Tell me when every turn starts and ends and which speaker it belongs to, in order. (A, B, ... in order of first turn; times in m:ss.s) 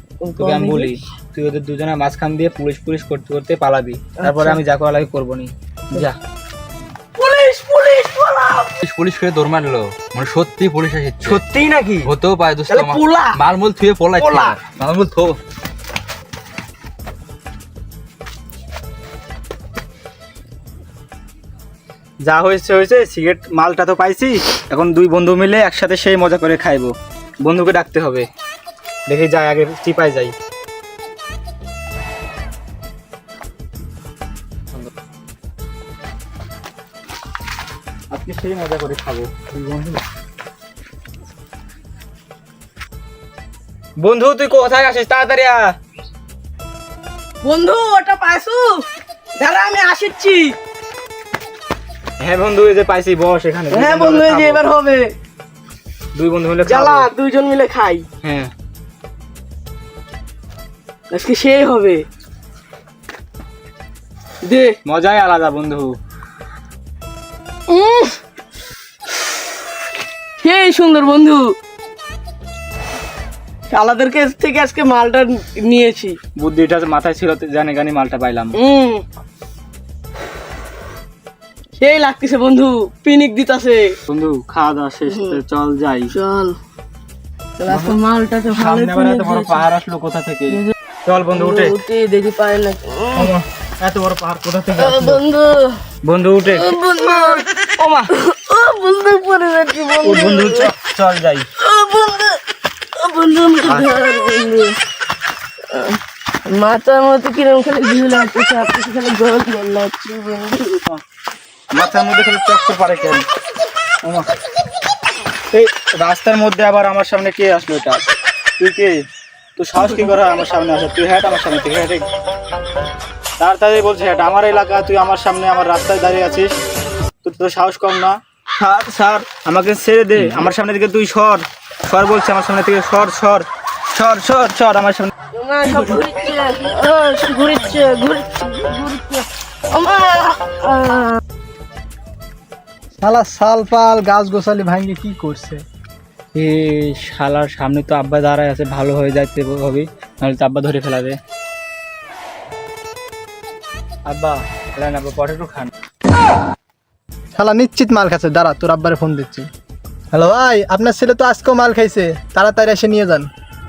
0:00.2-0:00.9 A
0:00.4-0:06.2 B
0:04.2-0:04.6 A
0:07.2-0:08.8 A
0:08.8-0:11.4 C
0:11.2-0:12.1 D
0:12.1-0:15.4 C
0:12.7-0:13.4 D
0:14.2-0:14.6 D
0:22.3-0:26.9 B
0:27.4-0:28.3 B
0:29.1-0:30.3 B
0:38.1-0:40.0 B
0:44.0-0:45.7 B
0:47.4-0:48.8 A
0:49.4-0:50.6 A
0:52.2-0:54.6 B
0:53.7-0:55.1 A
0:56.2-0:57.1 B
0:56.6-0:58.1 A
0:58.2-0:58.5 B
1:01.1-1:02.0 A
1:04.4-1:04.8 A
1:04.8-1:05.9 B
1:07.7-1:08.2 A
1:10.4-1:11.5 A
1:13.7-1:16.2 A
1:16.4-1:18.6 B
1:18.6-1:19.0 A
1:21.8-1:24.0 A
1:24.1-1:26.1 B
1:25.1-1:25.4 A
1:26.1-1:26.6 A
1:27.6-1:29.6 A
1:27.7-1:28.0 B
1:28.5-1:31.8 B
1:31.3-1:33.3 A
1:33.1-1:35.2 B
1:34.8-1:35.8 A
1:36.0-1:36.7 B
1:36.5-1:40.7 A
1:37.8-1:38.1 B
1:40.0-1:41.5 B
1:41.6-1:42.4 A
1:43.0-1:44.8 A
1:43.6-1:43.9 B
1:45.7-1:50.8 A
1:51.7-1:53.2 B
1:55.5-1:58.0 B
1:58.6-1:58.9 B
1:59.6-2:02.1 B
2:03.4-2:06.5 B
2:07.2-2:15.1 B
2:15.3-2:21.2 A
2:23.0-2:25.6 E
2:26.4-2:31.2 B
2:34.1-2:35.7 B
2:37.4-2:39.5 E
2:40.1-2:43.3 E